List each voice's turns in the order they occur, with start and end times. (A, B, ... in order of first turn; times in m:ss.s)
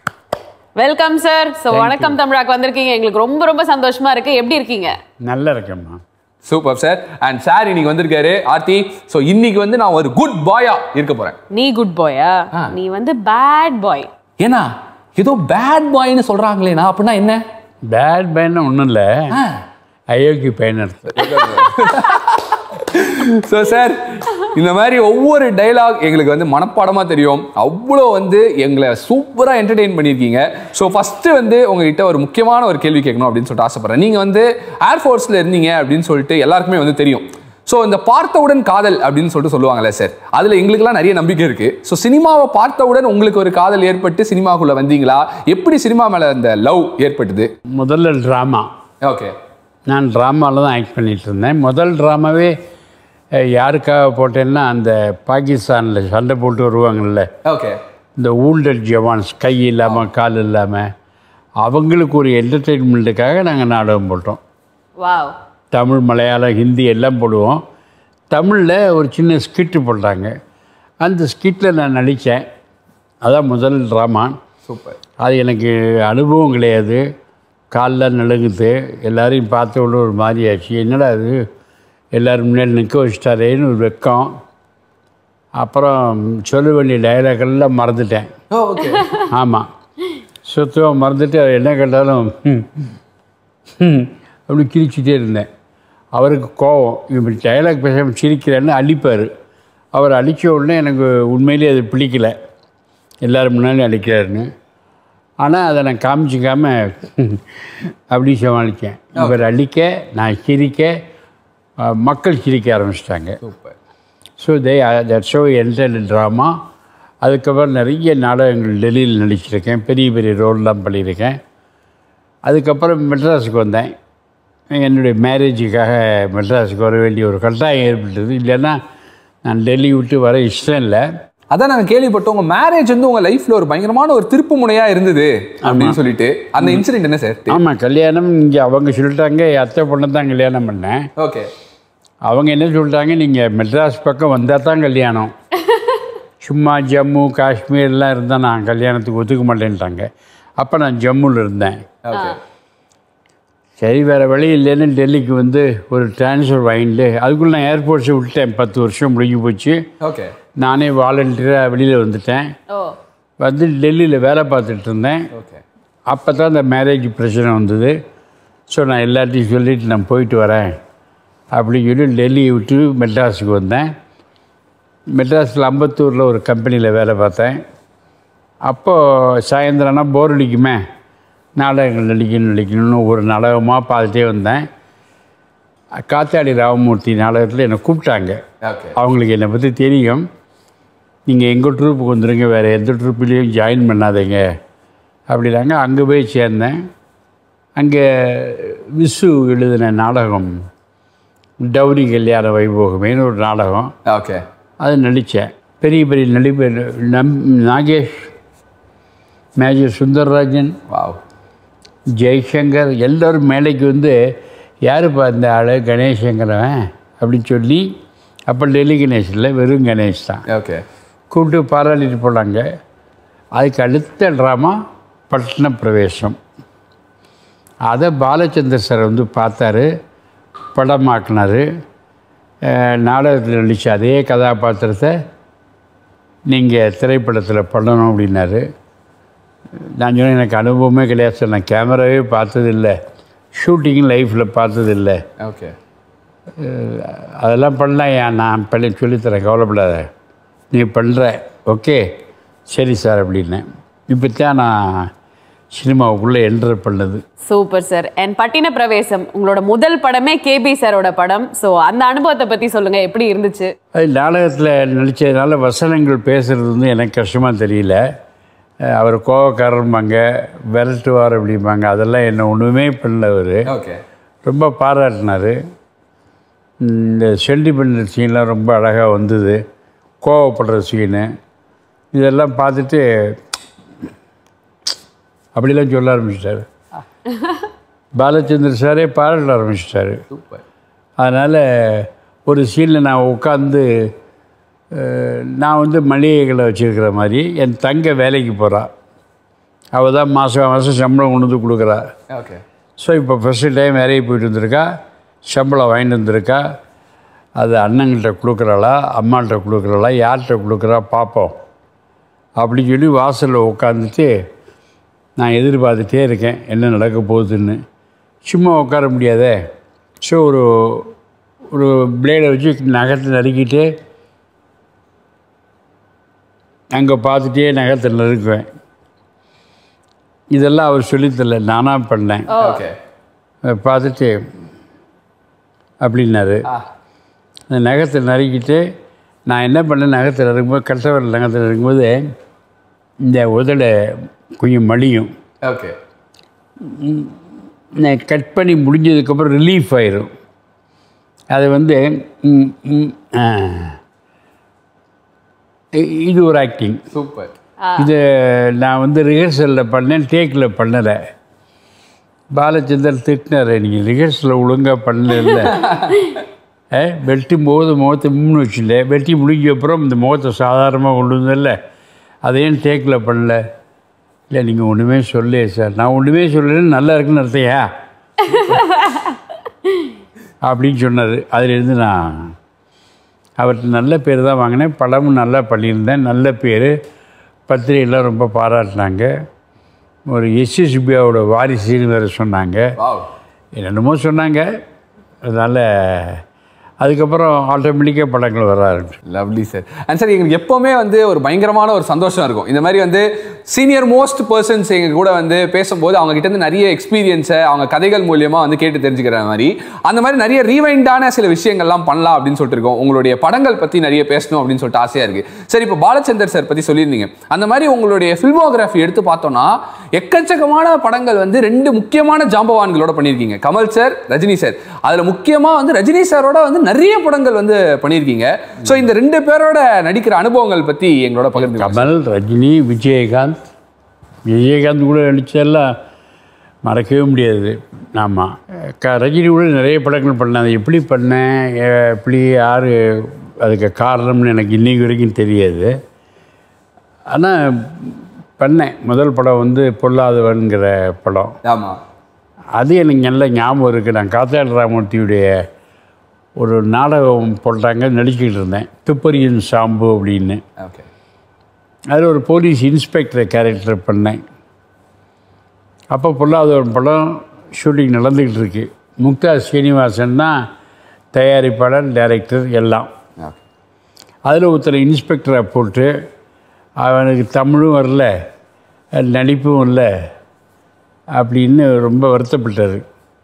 0:00.8-0:04.9 A
0:01.7-0:02.1 B
0:05.2-0:06.0 B
0:06.4-0:11.4 C
0:11.5-0:14.1 A
0:14.4-0:17.4 C
0:17.9-0:19.4 B
0:19.3-0:19.6 C
0:20.1-0:21.7 B
0:21.1-0:47.5 C
0:47.8-0:48.7 B
0:49.0-0:49.3 C
0:49.9-0:52.5 B
0:53.4-0:57.3 B
0:57.4-0:57.8 C
0:58.2-1:00.9 B
1:01.6-1:04.4 B
1:05.0-1:05.3 A
1:05.7-1:07.6 B
1:08.3-1:10.3 B
1:11.0-1:12.5 B
1:13.2-1:14.4 B
1:14.6-1:15.0 C
1:15.2-1:17.0 B
1:17.7-1:21.4 B
1:22.1-1:24.4 B
1:25.6-1:28.3 B
1:28.5-1:29.2 C
1:29.2-1:29.7 B
1:30.4-1:32.9 B
1:33.8-1:35.5 B
1:36.1-1:39.3 B
1:39.9-1:42.3 B
1:43.2-1:44.5 B
1:45.4-1:51.0 B
1:49.2-1:49.5 C
1:51.8-1:53.4 B
1:53.4-1:53.7 C
1:54.4-1:56.6 B
1:57.2-2:01.4 B
2:02.4-2:03.9 B
2:04.7-2:08.8 B
2:09.4-2:11.0 B
2:11.5-2:17.6 C
2:15.6-2:16.0 B
2:17.5-2:21.1 B
2:21.2-2:21.5 C
2:22.3-2:25.3 B
2:26.4-2:31.8 B
2:32.0-2:32.4 C
2:33.8-2:39.8 B
2:40.0-2:40.3 C
2:40.6-2:42.5 B
2:43.4-2:45.3 B
2:45.3-2:45.6 C
2:46.1-2:48.0 B
2:48.7-2:50.8 B
2:51.5-2:53.9 B
2:55.1-2:57.6 B
2:58.6-3:00.8 B
3:01.6-3:04.6 B
3:06.0-3:08.4 B
3:08.6-3:08.9 C
3:08.9-3:10.2 B
3:11.3-3:14.5 B
3:15.3-3:16.8 B
3:17.8-3:20.6 B
3:21.6-3:23.9 B
3:24.0-3:24.4 C
3:24.8-3:28.3 B
3:29.6-3:30.8 B
3:30.9-3:31.2 C
3:32.2-3:34.2 B
3:34.8-3:37.9 B
3:38.5-3:40.4 B
3:40.5-3:40.8 C
3:41.3-3:42.6 B
3:43.6-3:46.4 B
3:47.9-3:49.9 B
3:50.7-3:51.6 B
3:52.6-3:55.2 B
3:56.5-3:58.6 B
3:59.8-4:03.0 B
4:03.5-4:05.2 B
4:05.4-4:05.7 C
4:06.6-4:10.1 B
4:10.7-4:12.1 B
4:12.7-4:15.1 B
4:15.7-4:17.2 B
4:17.4-4:23.7 A
4:23.9-4:28.0 B
4:28.8-4:30.2 B
4:30.7-4:33.7 B
4:33.7-4:34.0 C
4:34.4-4:35.6 B
4:36.8-4:39.6 B
4:40.2-4:41.3 B
4:42.1-4:43.4 B
4:45.5-4:46.7 B
4:48.2-4:50.2 B
4:51.2-4:54.1 B
4:54.9-4:58.9 B
4:59.9-5:02.0 B
5:02.3-5:02.6 C
5:03.0-5:04.9 B
5:05.5-5:06.6 B
5:07.6-5:11.6 B
5:12.6-5:14.3 B
5:15.4-5:17.8 B
5:18.4-5:19.6 B
5:20.2-5:21.1 B
5:21.7-5:23.9 B
5:26.9-5:28.7 B
5:30.5-5:32.6 B
5:32.5-5:32.8 A
5:32.6-5:32.9 C
5:33.6-5:34.4 B
5:36.0-5:36.6 B
5:37.7-5:38.9 B
5:39.5-5:42.3 B
5:43.2-5:45.3 B
5:45.6-5:46.0 C
5:46.8-5:47.4 B
5:48.0-5:50.3 B
5:51.5-5:54.0 B
5:55.9-5:57.0 B
5:57.1-5:57.5 C
5:58.0-6:01.2 B
6:02.5-6:06.0 B
6:05.8-6:06.2 C
6:06.9-6:11.8 B
6:12.4-6:13.6 B
6:14.5-6:17.9 B
6:18.7-6:19.3 A
6:20.6-6:22.5 B
6:23.6-6:26.9 B
6:27.7-6:29.3 B
6:30.3-6:32.9 B
6:33.0-6:33.3 C
6:33.8-6:34.7 B
6:35.4-6:36.4 B
6:37.0-6:39.2 B
6:39.3-7:12.1 C
7:11.6-7:13.6 B
7:14.5-7:16.0 B
7:16.8-7:25.9 B
7:27.3-7:31.5 B
7:31.6-7:32.0 C
7:32.8-7:35.5 B
7:36.6-7:40.6 B
7:40.8-7:41.1 C
7:42.1-7:44.4 B
7:46.1-7:50.7 B
7:51.3-7:53.1 B
7:54.4-7:56.1 B
7:57.0-7:58.3 B
7:59.1-8:00.1 B
8:01.4-8:03.0 B